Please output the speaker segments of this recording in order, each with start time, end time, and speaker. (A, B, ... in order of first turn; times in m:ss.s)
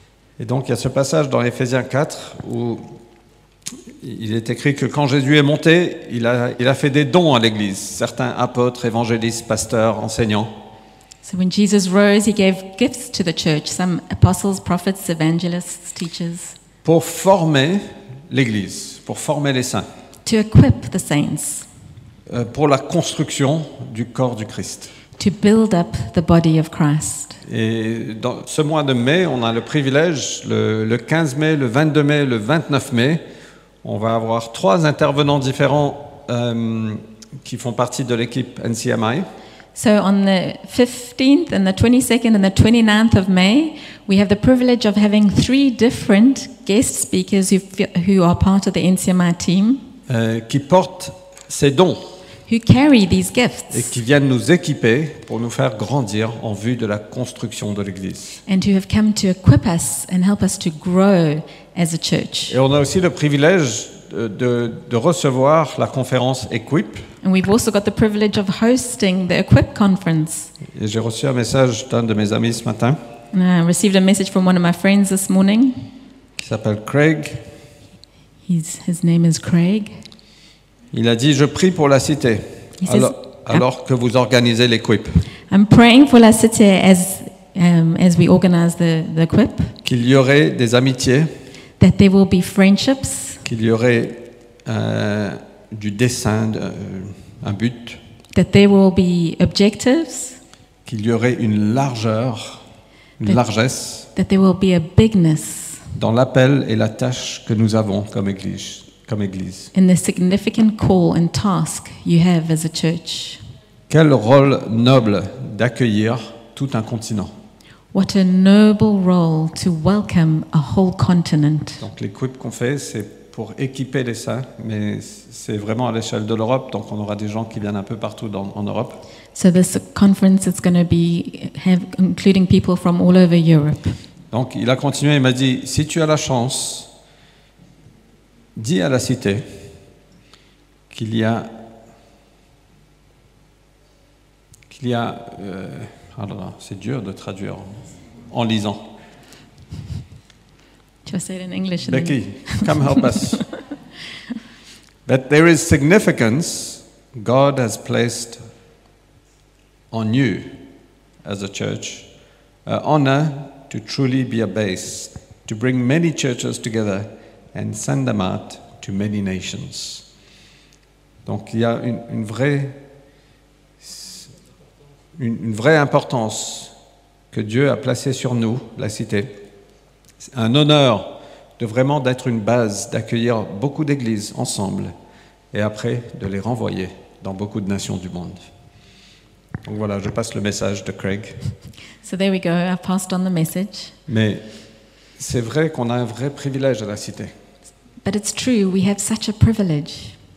0:00.4-0:02.8 A
0:04.0-0:10.5 A
0:11.2-0:16.6 B
0:16.8-0:19.9 A
0:20.2-0:21.7 B
0:22.3-0:24.9 A
0:25.2-0:27.4 B
0:27.4-0:33.2 A
0:33.8-0:39.2 A
0:39.7-0:49.8 B
0:50.1-0:52.1 A
0:52.5-0:53.9 B
0:53.7-0:58.4 A
0:58.4-1:02.6 B
1:02.5-1:07.1 A
1:07.2-1:10.5 B
1:10.7-1:13.0 A
1:13.3-1:15.8 B
1:16.4-1:17.4 A
1:18.5-1:19.9 B
1:20.9-1:25.2 A
1:22.8-1:23.6 B
1:25.5-1:29.7 B
1:29.8-1:31.3 A
1:31.8-1:33.4 B
1:33.4-1:38.0 A
1:38.3-1:40.4 B
1:40.8-1:42.6 A
1:43.2-1:44.1 A
1:44.1-1:45.8 B
1:45.9-1:49.7 A
1:49.7-1:53.4 B
1:53.9-1:57.3 A
1:57.9-2:01.8 B
2:01.8-2:09.0 A
2:09.3-2:14.0 B
2:14.3-2:16.9 A
2:18.6-2:19.4 A
2:20.9-2:21.5 A
2:24.7-2:27.8 A
2:28.3-2:28.8 A
2:31.0-2:33.4 B
2:31.8-2:33.4 A
2:35.0-2:38.4 A
2:39.9-2:40.6 A
2:41.2-2:42.1 A
2:42.6-2:50.0 A
2:51.2-2:52.8 A
2:53.8-2:54.2 A
2:55.2-2:56.7 A
2:57.3-2:59.3 A
3:00.3-3:04.9 A
3:05.5-3:08.4 A
3:09.6-3:11.4 A
3:12.0-3:13.9 B
3:14.1-3:14.4 A
3:15.2-3:17.3 A
3:18.0-3:20.1 B